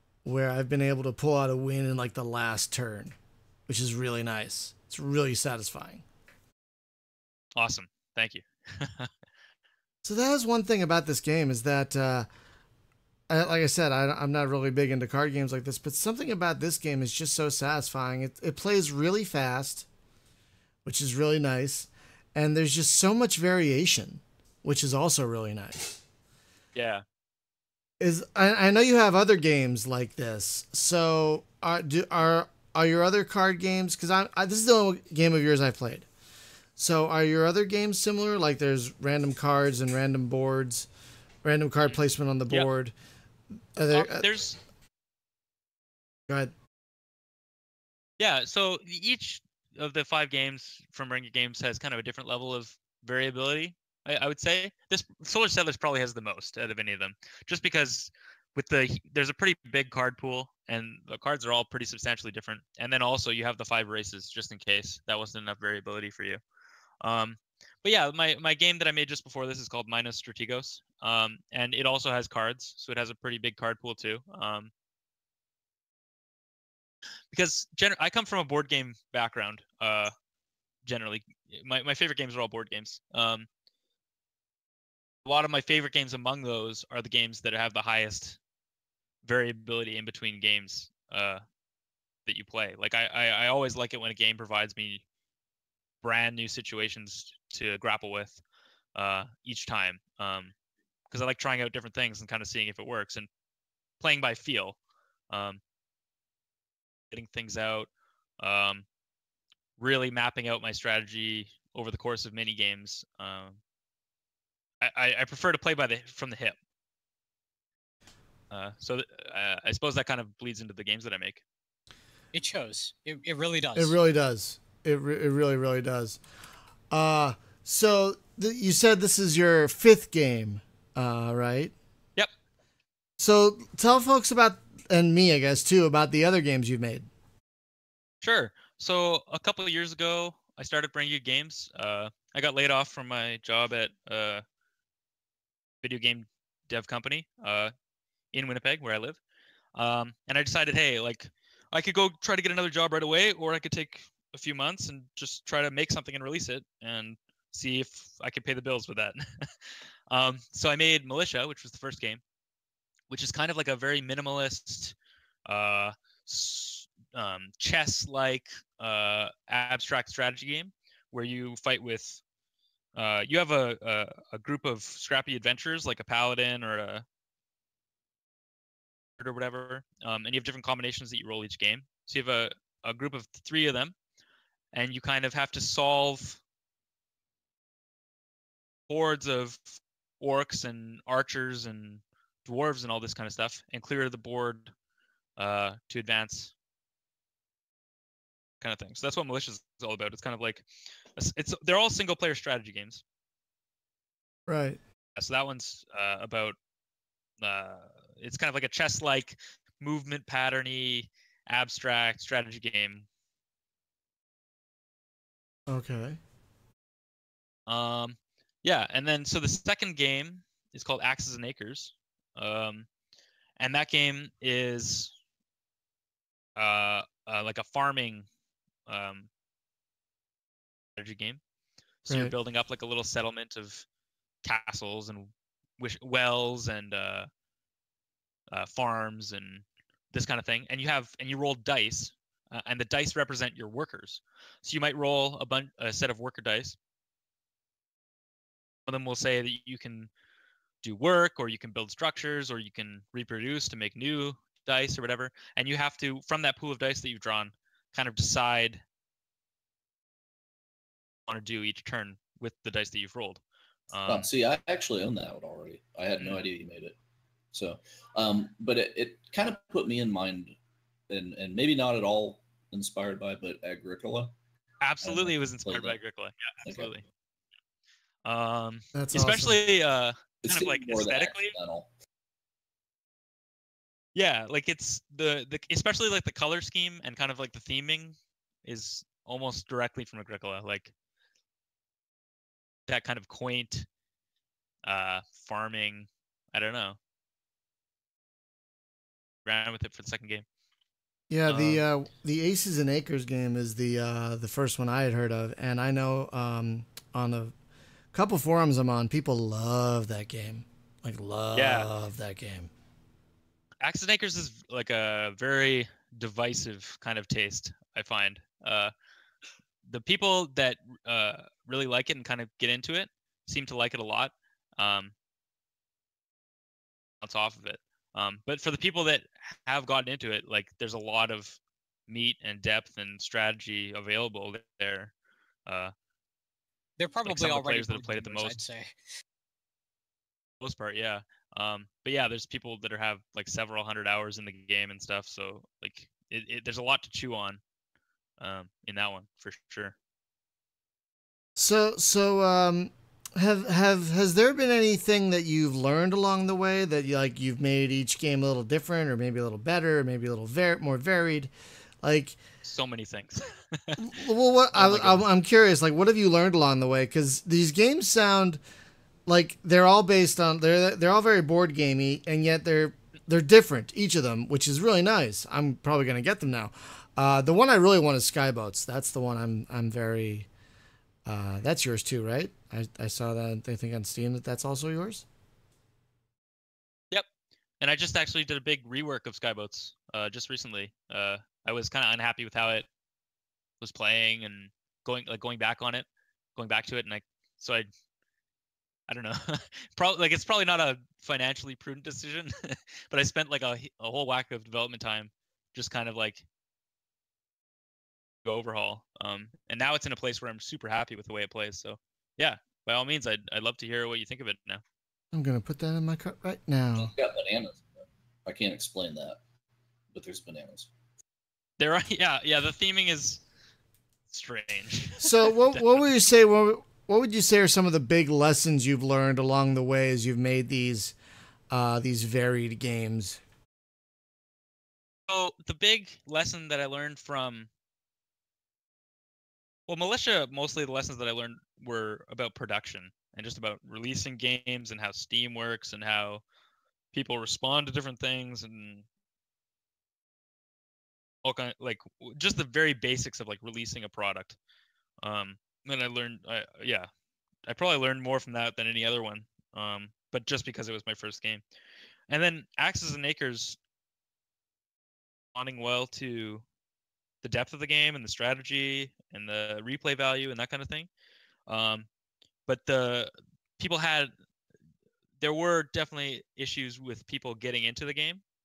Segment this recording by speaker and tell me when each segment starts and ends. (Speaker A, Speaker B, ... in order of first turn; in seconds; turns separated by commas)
Speaker A: 0.2-3.1, Speaker A: 3.7-6.0, Speaker B: 7.5-9.1, Speaker A: 10.0-12.3, Speaker A: 13.3-19.9, Speaker A: 20.8-25.8, Speaker B: 26.7-27.0, Speaker A: 28.0-36.1, Speaker A: 36.8-40.9, Speaker A: 41.4-42.9, Speaker A: 43.8-44.3, Speaker B: 43.9-44.6, Speaker B: 48.2-66.4, Speaker B: 67.0-74.7, Speaker B: 77.3-80.1, Speaker B: 80.8-83.5, Speaker B: 85.2-88.4, Speaker B: 89.2-91.4, Speaker B: 92.2-95.0, Speaker B: 96.0-98.4, Speaker B: 98.9-100.5, Speaker B: 101.1-103.3, Speaker B: 104.0-104.8, Speaker B: 105.3-105.6, Speaker B: 107.1-107.9, Speaker B: 108.4-108.8, Speaker B: 109.8-113.6, Speaker B: 114.8-116.5, Speaker B: 118.5-121.4, Speaker C: 122.3-123.9, Speaker A: 123.8-126.2, Speaker A: 126.9-131.7, Speaker A: 133.2-137.1, Speaker B: 138.2-144.4, Speaker B: 145.8-147.7, Speaker B: 148.3-149.2, Speaker B: 149.7-159.5, Speaker B: 160.1-162.2, Speaker B: 163.1-164.9, Speaker B: 165.4-172.2, Speaker B: 172.9-177.0, Speaker B: 179.2-183.9, Speaker B: 184.7-186.4, Speaker B: 188.9-194.7, Speaker B: 195.4-196.5, Speaker B: 198.6-203.0, Speaker A: 204.5-204.8, Speaker B: 205.2-206.6, Speaker B: 207.4-213.1, Speaker A: 215.7-216.2, Speaker B: 217.7-222.9, Speaker B: 223.6-225.1, Speaker B: 226.6-228.3, Speaker B: 228.9-229.3, Speaker B: 230.9-231.4, Speaker B: 232.0-233.8, Speaker A: 232.1-232.3, Speaker B: 234.4-237.3, Speaker B: 238.5-246.8, Speaker B: 248.9-250.1, Speaker B: 250.8-258.8, Speaker B: 261.3-263.4, Speaker B: 263.9-264.3, Speaker D: 264.1-266.9, Speaker D: 267.5-270.5, Speaker D: 271.1-274.3, Speaker B: 274.8-277.0, Speaker D: 275.0-276.0, Speaker D: 276.6-276.9, Speaker B: 278.2-281.6, Speaker A: 278.9-279.6, Speaker D: 280.4-281.9, Speaker B: 284.1-290.9, Speaker B: 292.9-293.9, Speaker B: 294.8-297.0, Speaker B: 299.4-300.4, Speaker A: 301.3-307.5, Speaker B: 301.5-301.8, Speaker A: 308.1-312.7, Speaker B: 311.5-311.9, Speaker B: 313.8-318.9, Speaker B: 319.8-325.1, Speaker B: 327.2-335.1, Speaker B: 335.6-335.9, Speaker C: 337.0-338.9, Speaker B: 337.2-338.5, Speaker B: 340.6-347.6, Speaker B: 348.4-349.9, Speaker A: 351.6-361.5, Speaker A: 362.0-362.4, Speaker B: 362.6-364.1, Speaker A: 364.0-368.6, Speaker B: 364.7-365.2, Speaker A: 369.2-380.5, Speaker A: 381.2-385.2, Speaker B: 387.8-392.9, Speaker B: 393.8-397.9, Speaker B: 399.1-406.4, Speaker B: 408.4-414.8, Speaker A: 415.3-417.1, Speaker D: 417.0-419.4, Speaker D: 420.1-420.9, Speaker B: 421.8-423.4, Speaker B: 424.3-426.0, Speaker A: 425.2-431.1, Speaker A: 431.7-433.4, Speaker B: 435.3-437.7, Speaker B: 439.9-446.4, Speaker B: 447.1-449.0, Speaker B: 451.4-454.6, Speaker B: 455.2-457.1, Speaker B: 457.7-461.6, Speaker B: 462.3-463.8, Speaker B: 465.5-466.6, Speaker B: 467.4-471.1, Speaker B: 471.7-472.1, Speaker B: 472.7-474.3, Speaker B: 475.4-478.4